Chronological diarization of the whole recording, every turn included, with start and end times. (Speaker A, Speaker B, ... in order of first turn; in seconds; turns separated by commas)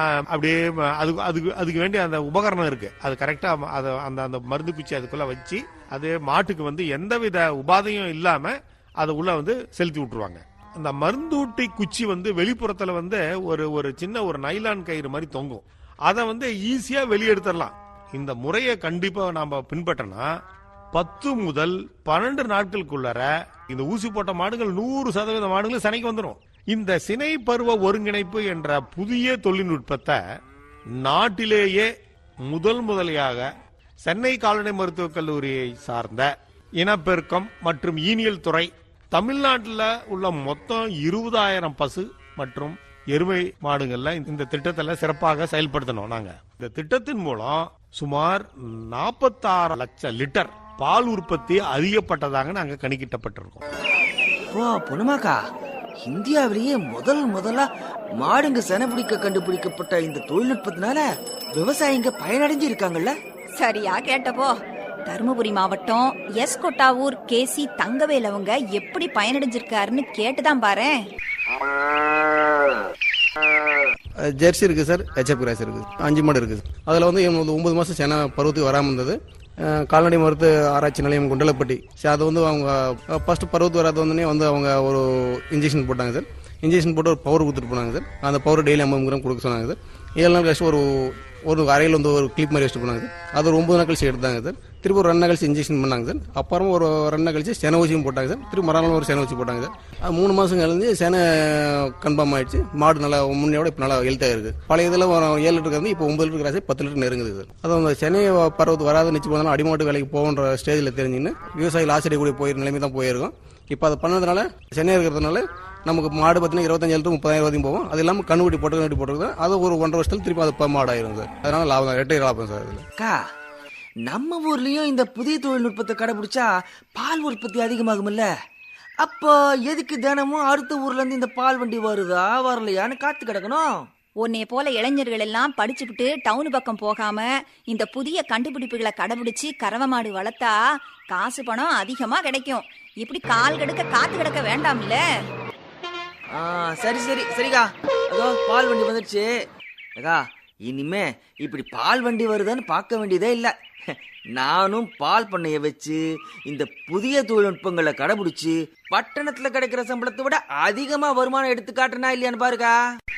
Speaker A: 0.3-20.3, Speaker A: 20.9-30.2, Speaker A: 31.0-31.9, Speaker A: 32.5-33.5, Speaker A: 34.0-36.3, Speaker A: 36.8-53.6, Speaker B: 54.5-55.4, Speaker B: 56.0-57.7, Speaker B: 58.2-61.0, Speaker B: 61.5-63.1, Speaker C: 63.6-64.5, Speaker C: 65.1-71.0, Speaker D: 74.3-79.2, Speaker D: 79.7-122.8, Speaker B: 123.0-123.2, Speaker B: 124.0-128.3, Speaker B: 129.0-133.8, Speaker C: 134.2-140.6, Speaker C: 141.1-145.0, Speaker B: 146.3-149.3, Speaker B: 150.0-153.5, Speaker B: 154.3-162.8